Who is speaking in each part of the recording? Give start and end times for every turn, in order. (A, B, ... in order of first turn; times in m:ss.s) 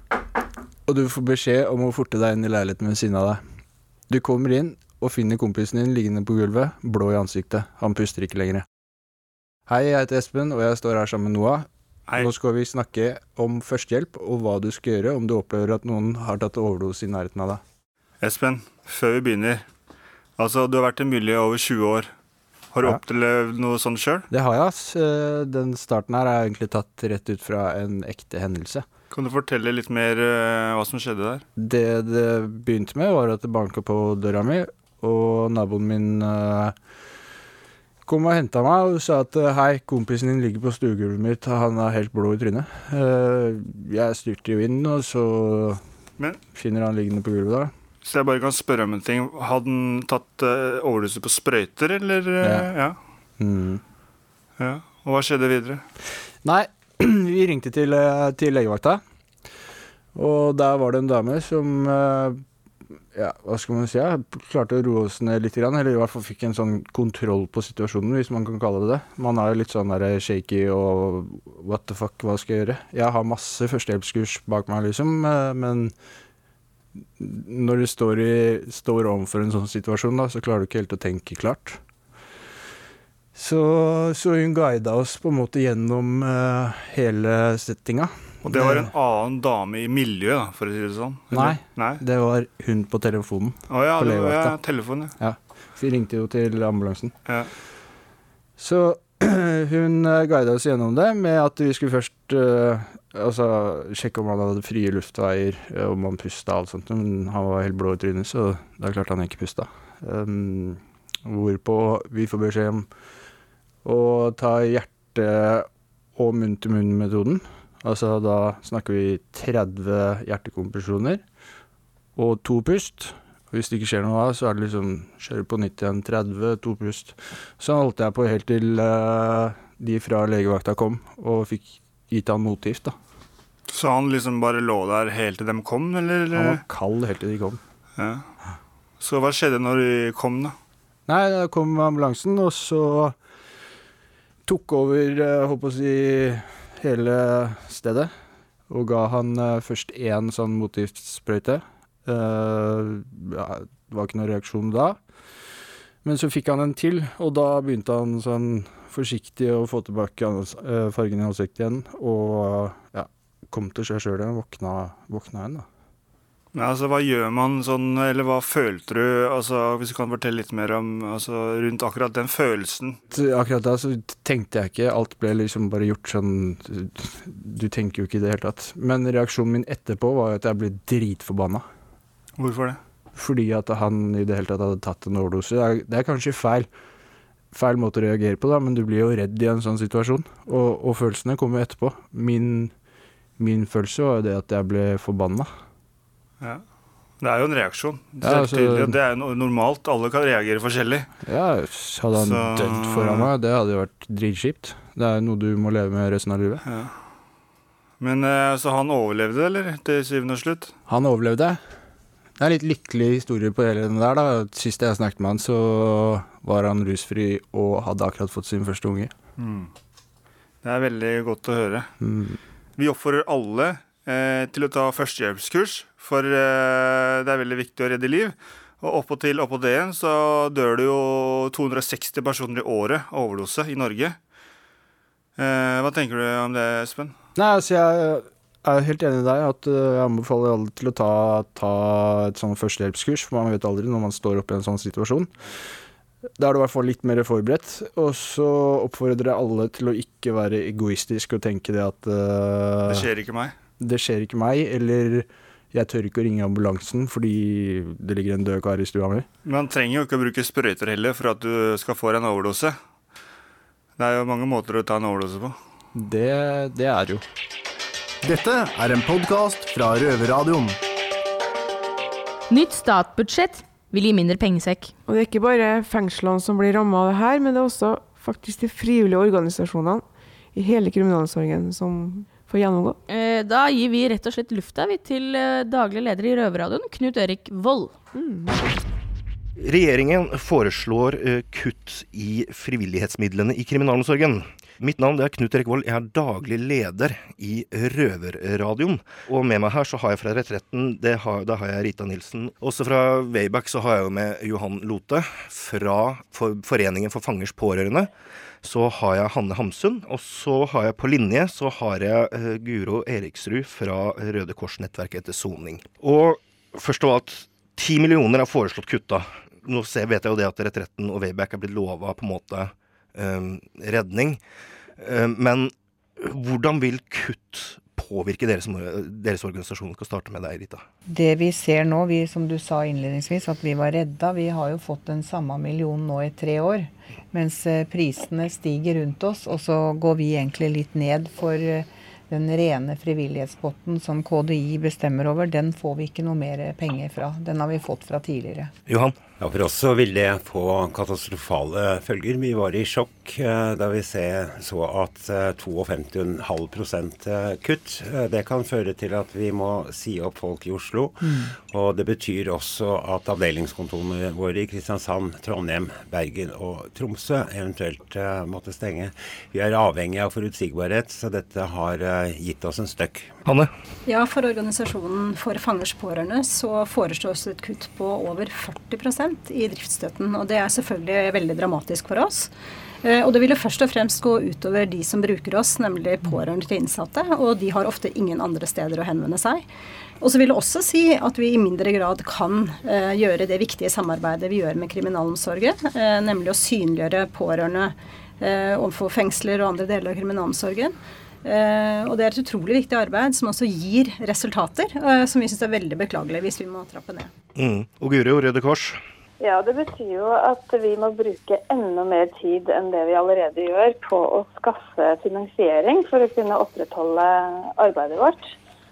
0:00.9-0:03.4 A
0:04.1-0:08.6 A
0:09.7-0:17.6 A
0:18.2-0:19.6 B
0:20.4-0:22.1 B
0:22.7-0:24.2 B
0:24.3-0:28.8 A
0:29.1-0:31.4 B
0:31.6-0:36.7 A
0:38.0-0:45.8 A
0:46.5-0:47.7 A
0:48.0-0:53.0 B
0:52.4-0:52.7 A
0:53.4-0:53.8 A
0:54.6-0:55.8 B
0:56.4-0:59.0 A
1:00.1-1:02.4 A
1:03.1-1:15.9 A
1:17.2-1:21.8 A
1:23.3-1:28.9 A
1:28.4-1:32.0 B
1:31.3-1:34.6 A
1:33.7-1:35.1 B
1:35.2-1:37.1 A
1:38.6-1:52.9 A
1:53.8-2:01.2 A
2:02.2-2:12.9 A
2:13.7-2:16.6 B
2:16.3-2:17.6 A
2:18.0-2:18.2 B
2:19.0-2:20.5 B
2:21.1-2:23.2 A
2:24.4-2:28.1 A
2:28.7-2:35.0 A
2:36.0-2:45.6 A
2:46.5-2:53.0 B
2:53.1-3:01.6 A
3:02.4-3:02.8 B
3:03.1-3:06.7 A
3:07.5-3:12.7 A
3:13.4-3:15.5 A
3:17.2-3:21.1 B
3:18.2-3:19.0 A
3:21.2-3:26.6 A
3:22.1-3:23.3 B
3:26.6-3:26.9 B
3:28.0-3:30.7 B
3:30.9-3:31.6 A
3:32.4-3:39.1 A
3:39.4-3:39.7 B
3:40.6-3:41.9 B
3:42.0-3:42.4 A
3:42.8-3:54.2 B
3:55.4-3:57.1 B
3:57.4-4:05.4 A
4:06.4-4:13.1 A
4:12.9-4:13.5 B
4:13.8-4:19.2 A
4:19.4-4:22.8 B
4:24.0-4:25.6 B
4:25.9-4:27.2 A
4:28.2-4:30.7 C
4:32.5-4:34.9 D
4:35.0-4:43.0 E
4:43.1-4:47.9 D
4:48.1-4:48.6 E
4:49.6-5:08.1 F
5:08.6-5:24.4 F
5:25.0-5:30.8 F
5:31.1-5:48.7 G
5:48.9-5:49.2 F
5:49.4-6:13.3 H
6:01.2-6:01.5 G
6:14.0-6:22.5 I
6:23.0-6:29.7 I
6:30.2-6:47.3 I
6:47.6-6:49.0 F
6:49.4-6:58.5 J